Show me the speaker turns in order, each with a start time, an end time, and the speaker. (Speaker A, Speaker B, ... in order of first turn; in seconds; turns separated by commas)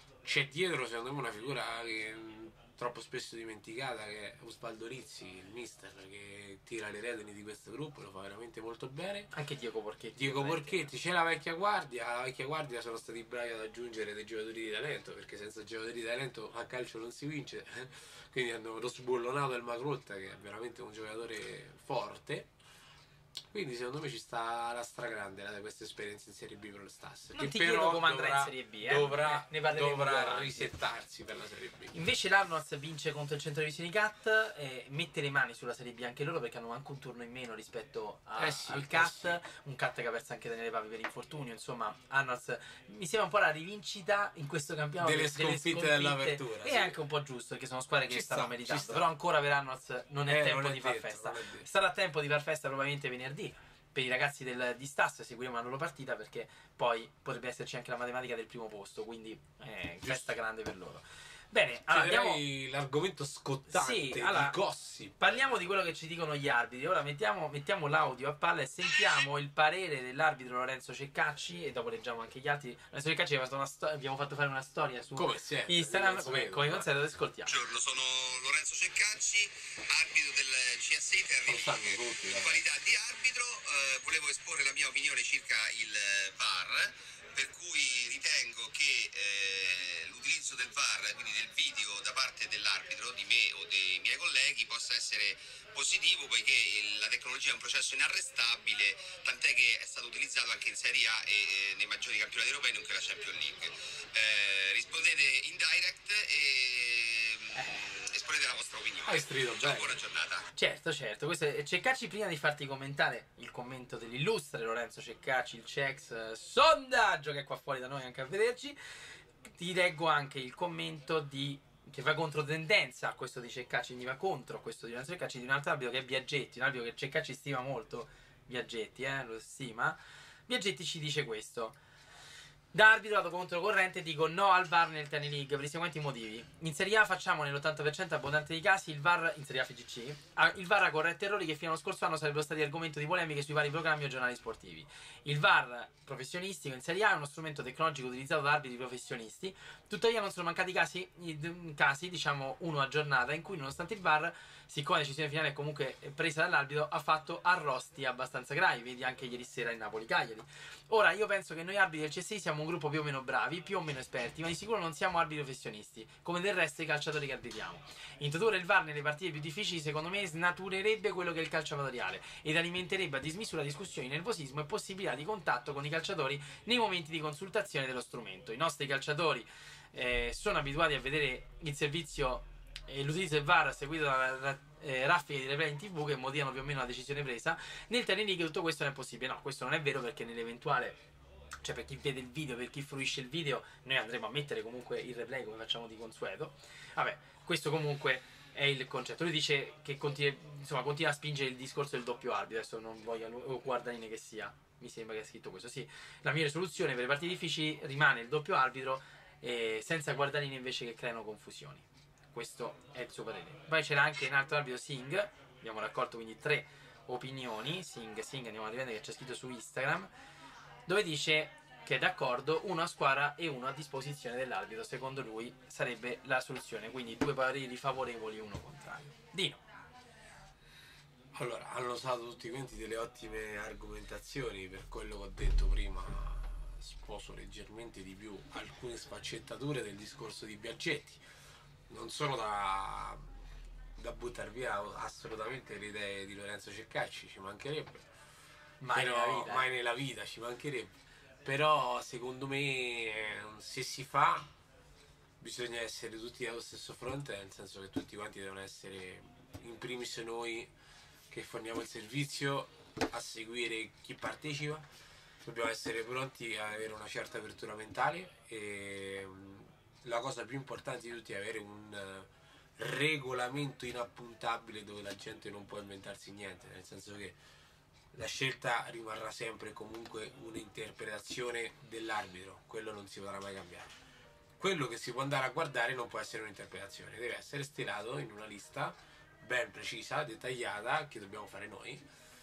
Speaker A: 0.2-9.3, Speaker B: 9.3-10.9, Speaker A: 10.2-22.5, Speaker A: 23.5-31.9, Speaker B: 27.3-30.7, Speaker B: 31.9-62.4, Speaker A: 38.4-39.4, Speaker A: 45.0-47.0, Speaker A: 48.1-49.1, Speaker A: 50.3-51.7, Speaker A: 60.0-60.3, Speaker A: 61.9-65.4, Speaker B: 63.7-64.6, Speaker B: 65.2-77.6, Speaker A: 75.1-76.9, Speaker C: 77.5-110.5, Speaker A: 81.4-82.6, Speaker B: 107.5-107.9, Speaker A: 109.0-110.0, Speaker B: 110.5-118.8, Speaker B: 119.4-131.8, Speaker B: 132.7-191.0, Speaker B: 191.6-220.1, Speaker B: 220.9-229.6, Speaker A: 231.3-241.2, Speaker A: 241.9-243.3, Speaker A: 243.9-248.1, Speaker B: 248.8-249.7, Speaker A: 248.9-254.5, Speaker A: 255.4-260.7, Speaker A: 261.3-264.9, Speaker A: 265.4-277.4, Speaker A: 278.1-283.9, Speaker A: 284.6-292.0